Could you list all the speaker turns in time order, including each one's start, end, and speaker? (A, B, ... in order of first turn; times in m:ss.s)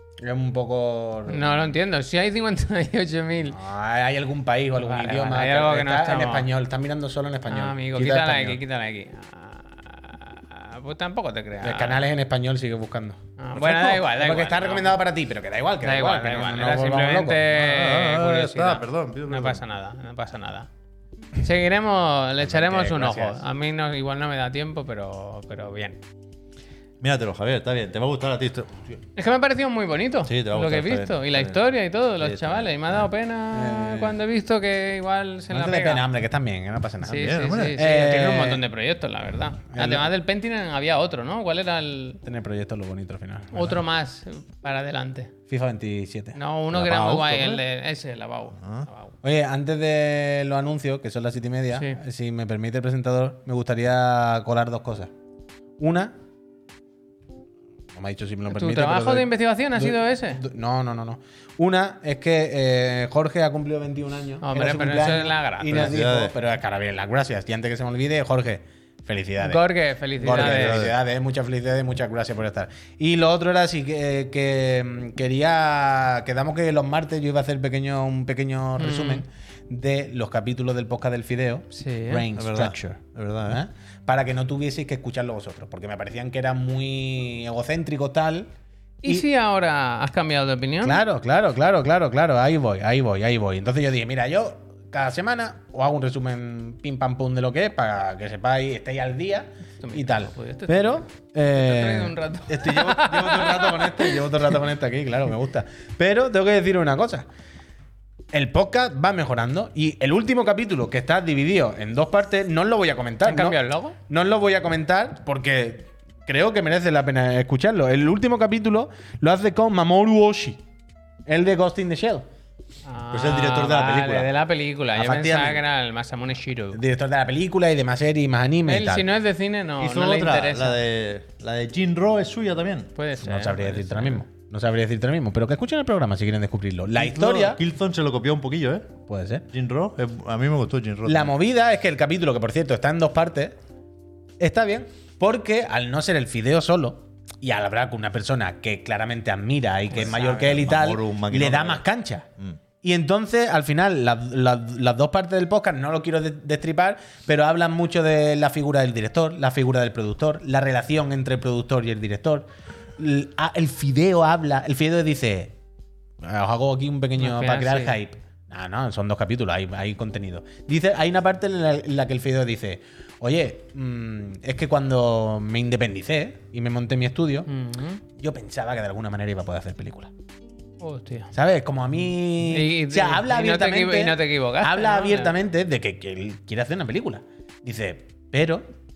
0:00.2-0:01.7 A
0:01.3-0:03.6 B
0:03.5-0:08.6 A
0:04.8-0:06.5 B
0:07.5-0:12.1 B
0:11.6-0:17.4 A
0:13.4-0:15.0 B
0:15.8-0:20.7 B
0:17.5-0:19.6 C
0:21.4-0:26.0 B
0:22.4-0:23.4 A
0:27.0-0:29.0 C
0:29.2-0:36.0 B
0:30.2-0:31.6 C
0:32.2-0:32.9 C
0:33.5-0:34.2 A
0:35.5-0:38.6 A
0:37.0-0:42.2 B
0:37.1-0:37.8 C
0:39.7-0:40.1 A
0:42.2-0:43.8 A
0:43.5-0:45.3 B
0:45.5-0:46.4 A
0:46.3-0:49.1 B
0:46.7-0:47.6 C
0:48.6-0:48.9 C
0:49.2-0:55.1 A
0:55.8-0:56.1 A
0:57.9-1:09.6 A
0:58.5-1:00.4 B
1:04.4-1:05.9 B
1:05.7-1:06.3 C
1:09.4-1:10.8 B
1:10.2-1:28.5 A
1:10.2-1:11.0 C
1:18.8-1:19.2 B
1:21.7-1:22.2 B
1:22.3-1:23.6 C
1:29.0-1:31.0 B
1:30.8-1:47.2 A
1:39.8-1:44.3 B
1:48.3-2:00.6 A
1:53.2-1:54.0 B
2:01.3-2:02.2 A
2:02.8-2:06.8 B
2:03.1-2:04.3 C
2:04.9-2:05.6 A
2:06.7-2:09.0 A
2:08.6-2:10.8 B
2:09.8-2:12.9 C
2:13.0-2:14.2 B
2:13.2-2:17.6 A
2:17.0-2:18.9 C
2:19.1-2:19.4 A
2:19.5-2:21.3 C
2:21.0-2:23.5 A
2:24.4-2:32.3 A
2:29.9-2:30.4 B
2:29.9-2:31.8 C
2:32.8-2:42.5 A
2:43.0-2:45.5 A
2:46.2-2:57.5 A
2:47.2-2:48.0 B
2:57.5-2:58.0 B
2:58.2-3:00.1 A
3:00.8-3:01.3 B
3:01.3-3:08.6 A
3:02.5-3:05.3 B